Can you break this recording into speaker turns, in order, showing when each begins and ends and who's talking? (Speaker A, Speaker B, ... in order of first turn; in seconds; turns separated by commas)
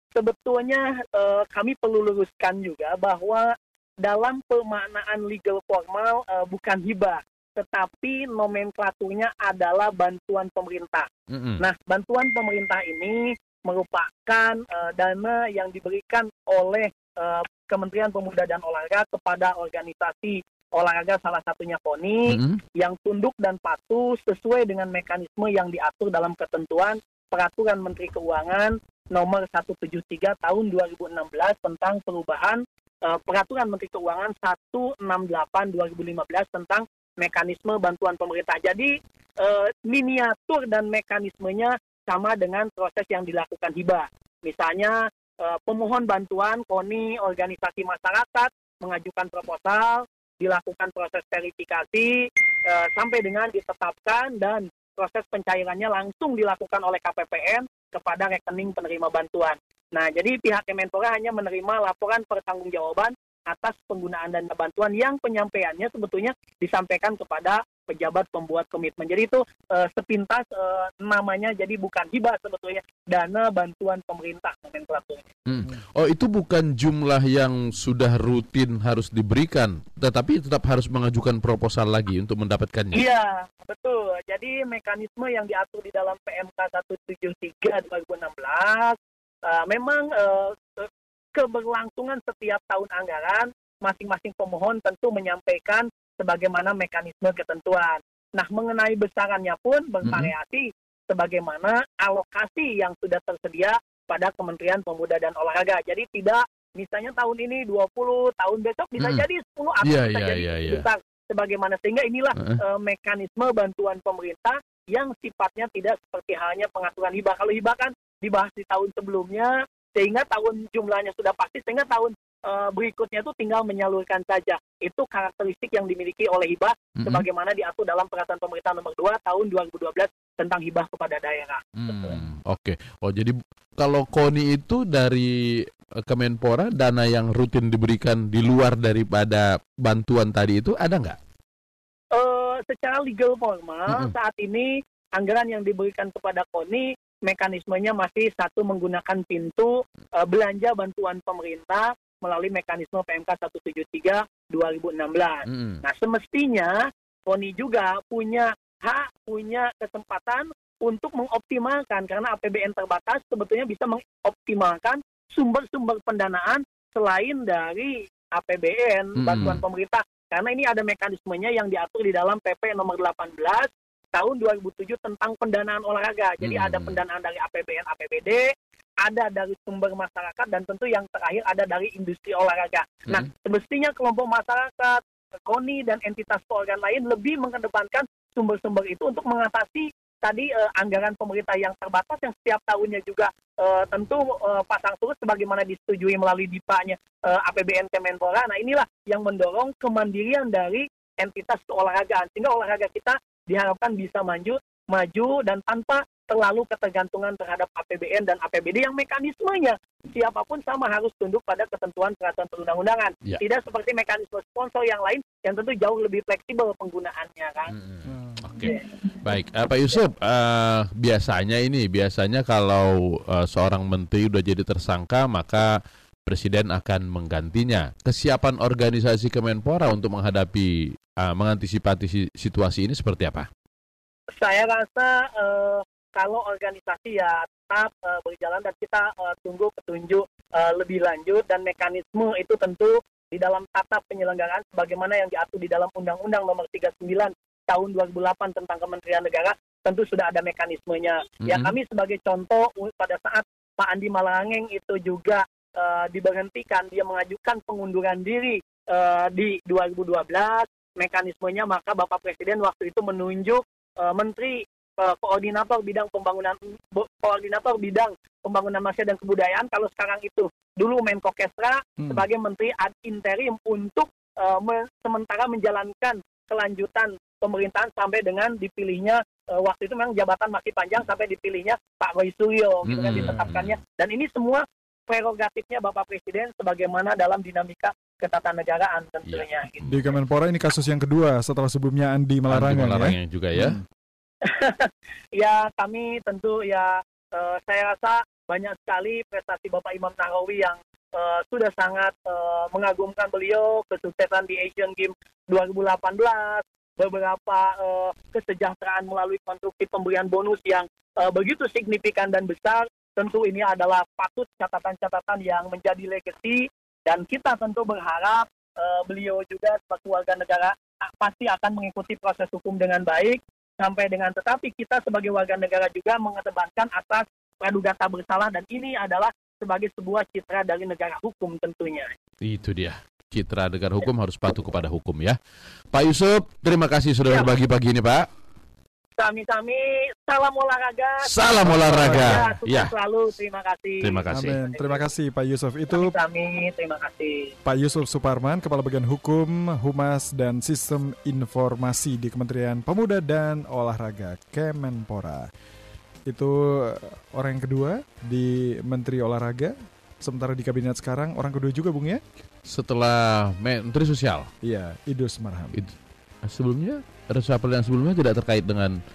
Speaker A: 0.1-75.3, Speaker B: 11.3-11.6, Speaker B: 22.3-22.6, Speaker B: 75.5-83.0, Speaker A: 82.9-132.2, Speaker B: 100.0-100.3, Speaker B: 109.0-109.2, Speaker B: 109.8-110.9, Speaker B: 127.0-127.2, Speaker B: 131.8-141.2, Speaker A: 142.1-178.5, Speaker B: 155.5-155.8, Speaker B: 169.2-169.6, Speaker B: 176.4-177.0, Speaker A: 179.0-217.8, Speaker B: 217.7-233.5, Speaker C: 218.1-218.4, Speaker A: 218.6-218.9, Speaker A: 234.4-290.0, Speaker B: 251.4-251.7, Speaker B: 282.9-283.8, Speaker C: 283.2-283.5, Speaker B: 289.3-290.0, Speaker C: 289.9-293.8, Speaker B: 292.5-293.8, Speaker A: 294.4-332.1, Speaker B: 332.4-335.4, Speaker B: 335.9-338.3, Speaker A: 337.3-337.5, Speaker A: 339.2-345.1, Speaker B: 341.2-342.9, Speaker C: 341.6-342.5, Speaker B: 344.0-344.6, Speaker C: 344.3-346.1, Speaker A: 345.9-347.5, Speaker C: 347.6-355.5, Speaker C: 356.3-362.2, Speaker B: 362.6-364.5, Speaker C: 364.6-365.9, Speaker B: 365.7-369.0